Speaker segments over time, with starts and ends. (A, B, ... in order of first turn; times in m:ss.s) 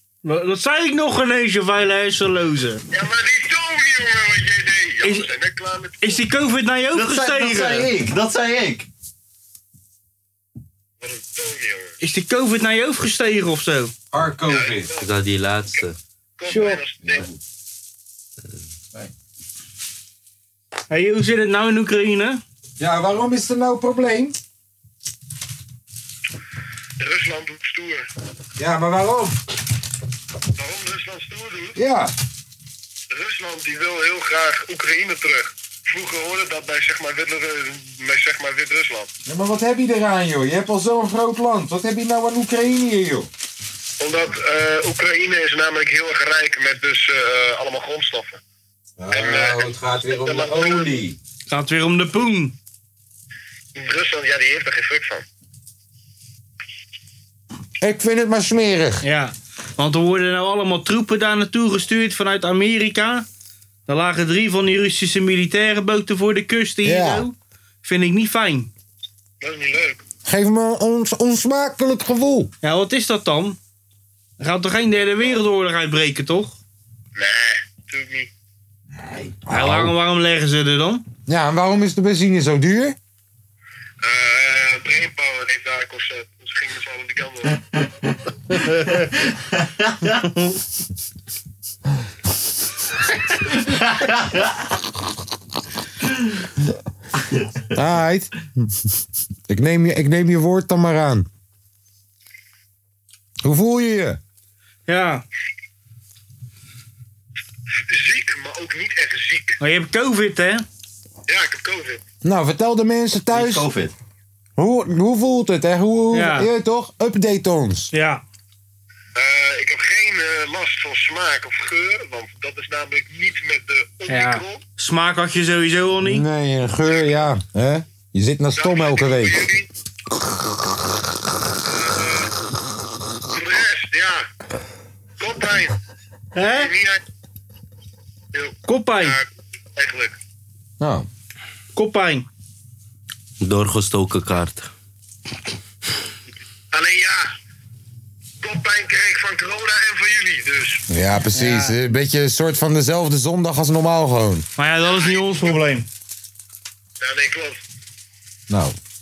0:00.2-0:02.8 A
0:02.9-0:06.2 B
0:05.0-0:05.3 A
0:06.0-0:07.9 A
0:06.9-0:08.9 C
0:11.0-0:12.0 B
0:12.0-0:13.9 A
0:14.1-0:14.9 D
0:14.5-0:15.1 B
0:15.0-0:16.0 E
0:16.4-0:17.3 B
0:16.5-0:16.8 A
0:20.9-0:22.4 A
0:22.8-0:24.4 D
0:27.0-0:28.1 B
0:28.6-0:29.4 D
0:30.6-0:31.8 B
0:31.8-0:32.1 D
0:33.1-0:39.1 B
0:39.3-0:43.3 D
0:44.0-0:48.4 B
0:49.0-0:51.2 D
0:49.1-0:49.6 B
0:50.2-0:50.9 B
0:51.5-0:52.6 A
0:53.8-0:55.2 B
0:57.8-0:59.0 D
0:59.0-1:03.3 A
1:03.9-1:08.7 A
1:06.8-1:07.3 D
1:09.4-1:10.0 B
1:10.2-1:12.5 D
1:12.6-1:13.6 A
1:14.4-1:16.6 A
1:17.2-1:18.3 B
1:19.4-1:20.0 D
1:19.5-1:21.0 A
1:21.3-1:23.0 D
1:24.0-1:27.8 B
1:29.8-1:30.2 C
1:33.5-1:34.4 C
1:37.7-1:38.7 D
1:39.5-1:41.3 D
1:43.4-1:44.2 D
1:44.9-1:45.2 A
1:47.8-1:49.6 B
1:49.6-1:50.6 A
1:51.3-1:52.0 B
1:52.2-1:53.7 D
1:53.3-1:53.9 C
1:54.6-1:57.9 D
1:56.1-1:56.5 A
1:57.9-1:58.2 A
1:59.2-2:04.6 B
2:04.1-2:06.2 A
2:06.0-2:09.5 D
2:08.6-2:09.7 B
2:11.6-2:12.3 B
2:13.3-2:14.3 B
2:15.2-2:15.8 B
2:16.4-2:16.7 A
2:16.4-2:17.0 B
2:18.3-2:20.2 B
2:18.6-2:19.2 A
2:20.8-2:21.1 D
2:21.8-2:22.3 A
2:23.4-2:24.7 E
2:26.7-2:27.3 B
2:28.4-2:30.8 B
2:30.9-2:34.5 D
2:31.3-2:31.8 A
2:34.6-2:35.9 A
2:34.8-2:35.6 B
2:37.0-2:37.6 B
2:38.5-2:38.8 D